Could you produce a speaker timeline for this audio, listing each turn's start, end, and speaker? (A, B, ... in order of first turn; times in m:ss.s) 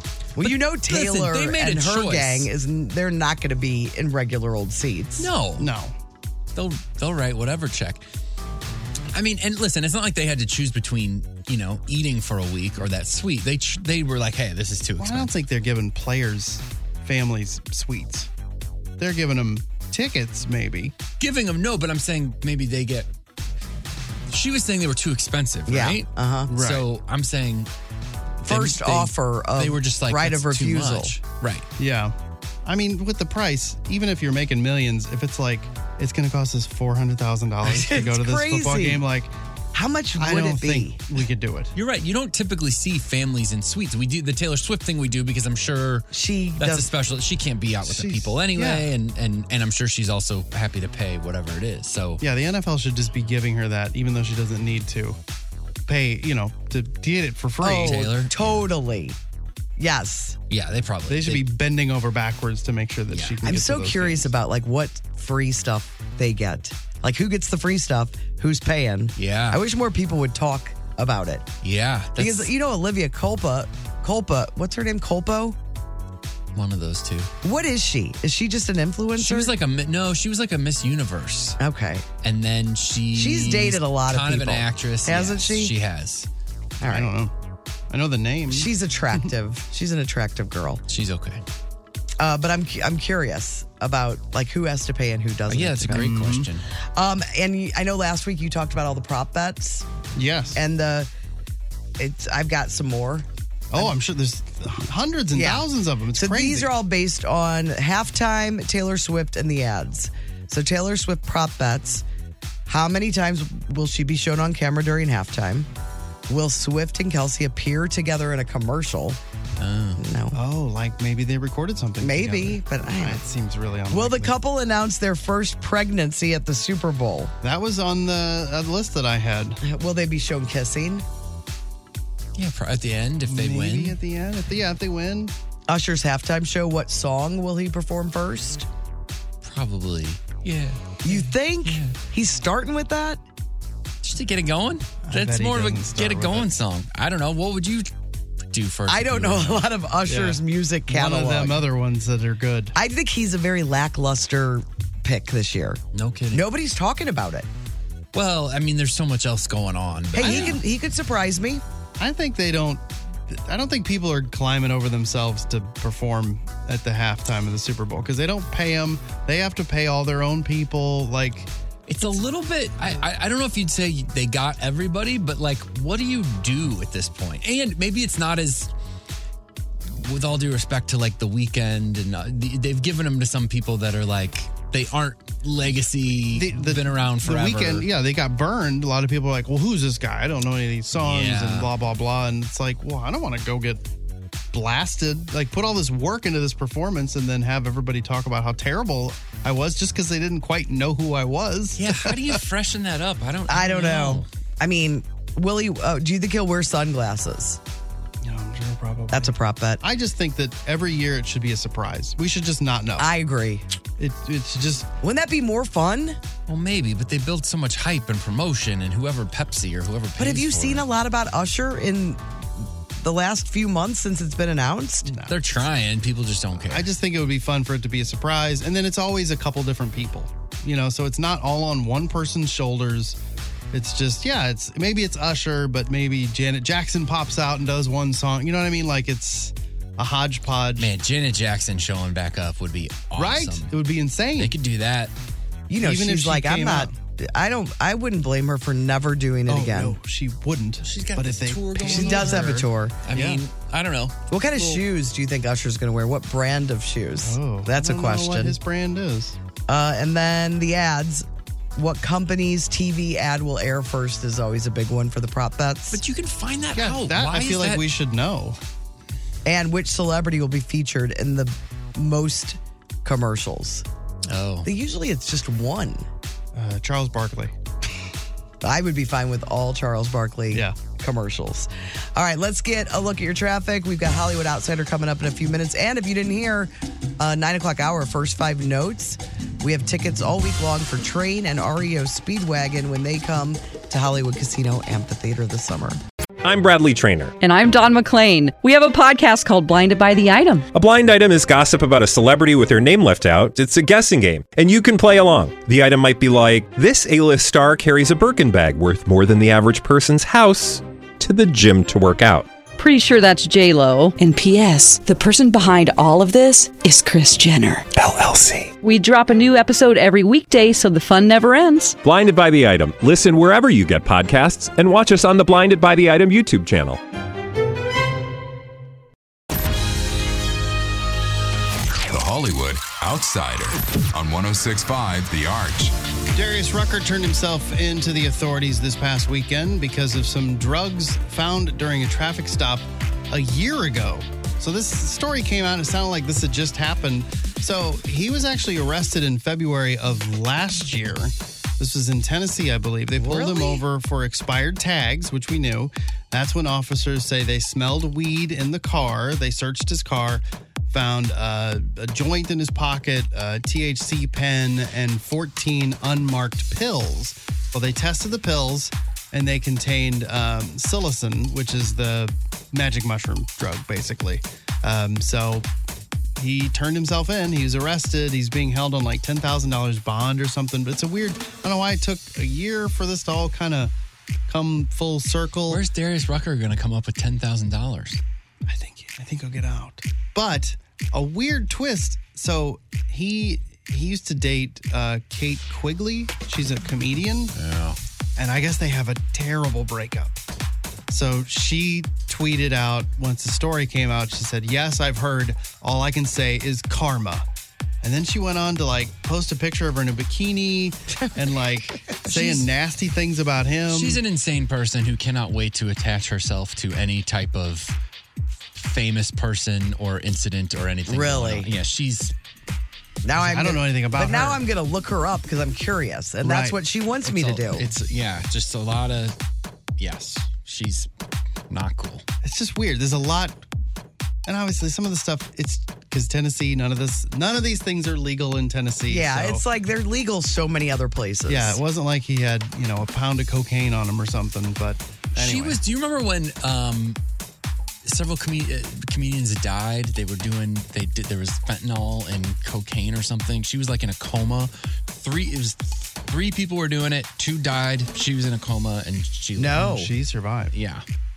0:00.3-0:05.3 A
0:00.4-0:02.5 B
0:05.2-0:05.7 B
0:05.6-0:06.0 C
0:06.5-0:08.0 B
0:09.1-0:15.3 B
0:15.0-0:18.3 C
0:19.0-0:20.9 C
0:21.2-0:23.1 B
0:24.3-0:27.7 B
0:25.7-0:26.5 A
0:26.5-0:26.8 C
0:28.4-0:31.2 A
0:28.5-0:31.7 B
0:31.8-0:32.1 C
0:32.6-0:39.3 C
0:37.6-0:39.0 A
0:39.7-0:41.0 A
0:40.2-0:41.7 C
0:41.7-0:52.2 B
0:46.1-0:46.9 A
0:47.8-0:48.9 C
0:52.2-0:55.2 C
0:55.9-0:58.1 C
0:57.6-0:59.2 A
0:57.8-0:58.7 B
0:59.8-1:00.4 A
1:00.5-1:01.4 B
1:01.1-1:04.3 C
1:03.1-1:03.5 B
1:03.4-1:11.5 A
1:09.2-1:09.6 B
1:11.6-1:12.5 B
1:12.2-1:15.6 A
1:16.5-1:17.3 B
1:17.4-1:19.5 A
1:19.2-1:21.6 B
1:21.6-1:22.0 A
1:22.2-1:26.3 B
1:23.1-1:25.7 A
1:26.8-1:27.1 A
1:26.8-1:27.3 C
1:27.9-1:28.7 C
1:28.5-1:30.8 A
1:30.9-1:31.4 B
1:32.2-1:36.4 A
1:35.5-1:36.6 B
1:35.9-1:36.5 C
1:36.9-1:39.9 A
1:40.1-1:40.6 C
1:40.5-1:41.1 A
1:42.0-1:43.9 A
1:43.7-1:46.7 C
1:45.3-1:52.0 A
1:52.6-1:55.7 A
1:56.3-1:59.2 A
1:59.6-2:00.0 B
2:00.0-2:00.4 A
2:00.3-2:04.3 C
2:02.0-2:03.2 A
2:03.9-2:07.3 A
2:07.4-2:09.6 C
2:09.6-2:11.0 A
2:12.4-2:14.0 B
2:13.2-2:15.3 C
2:15.7-2:18.6 A
2:19.4-2:21.9 B
2:21.0-2:23.2 A
2:24.0-2:27.9 B
2:25.0-2:26.5 C
2:28.5-2:29.7 B
2:28.9-2:31.6 A
2:30.1-2:32.7 C
2:32.7-2:37.5 A
2:35.9-2:36.4 B
2:38.1-2:40.6 B
2:40.1-2:41.6 A
2:40.2-2:40.6 C
2:42.0-2:51.5 C
2:51.9-2:58.7 B
2:59.9-3:07.8 B
3:06.3-3:13.8 C
3:11.0-3:11.7 B
3:14.5-3:22.1 C
3:21.8-3:24.3 B
3:23.5-3:27.6 A
3:28.2-3:33.1 C
3:29.1-3:29.8 A
3:33.0-3:33.6 A
3:34.0-3:34.9 C
3:35.0-3:36.2 A
3:36.5-3:40.9 B
3:40.2-3:45.1 A
3:45.1-3:45.6 C
3:45.3-3:46.9 B
3:46.6-3:53.2 C
3:53.7-4:00.9 C
4:00.8-4:03.7 B
4:03.1-4:04.6 C
4:04.4-4:05.1 B
4:05.7-4:10.0 A
4:05.8-4:06.9 C
4:09.5-4:12.6 C
4:10.8-4:14.2 B
4:11.8-4:13.0 A
4:13.1-4:13.4 C
4:14.3-4:18.6 A
4:17.2-4:19.4 C
4:19.7-4:26.0 A
4:25.9-4:27.9 B
4:26.7-4:28.6 C
4:29.4-4:33.8 A
4:34.3-4:34.7 B
4:34.6-4:36.0 A
4:36.5-4:37.5 C
4:38.6-4:56.0 A
4:40.5-4:40.8 C
4:56.4-4:57.4 D
4:57.4-5:00.7 E
5:00.7-5:12.5 D
5:12.8-5:18.1 E
5:18.8-5:22.0 E
5:22.0-5:27.0 D
5:32.0-5:35.9 F
5:36.3-6:15.6 C
5:53.1-5:53.8 A
6:16.4-6:23.9 C
6:24.5-6:25.8 C
6:25.7-6:28.2 B
6:28.6-6:37.5 C
6:37.5-6:38.0 B
6:38.4-6:40.4 C
6:41.1-6:47.5 C
6:48.0-6:54.2 C
6:51.2-6:51.5 A
6:52.1-6:52.6 A
6:53.9-6:58.0 B
6:58.7-7:02.3 B
7:01.1-7:01.7 A
7:03.2-7:07.9 A
7:03.4-7:04.6 C
7:06.4-7:06.8 C
7:07.2-7:09.3 B
7:10.0-7:11.1 B
7:11.7-7:12.2 B
7:12.4-7:13.6 C
7:14.4-7:19.6 C
7:19.1-7:21.8 A
7:21.5-7:25.8 C
7:25.4-7:27.2 B
7:28.0-7:40.0 B
7:39.6-7:40.1 A
7:39.7-7:40.7 C
7:40.7-7:41.0 B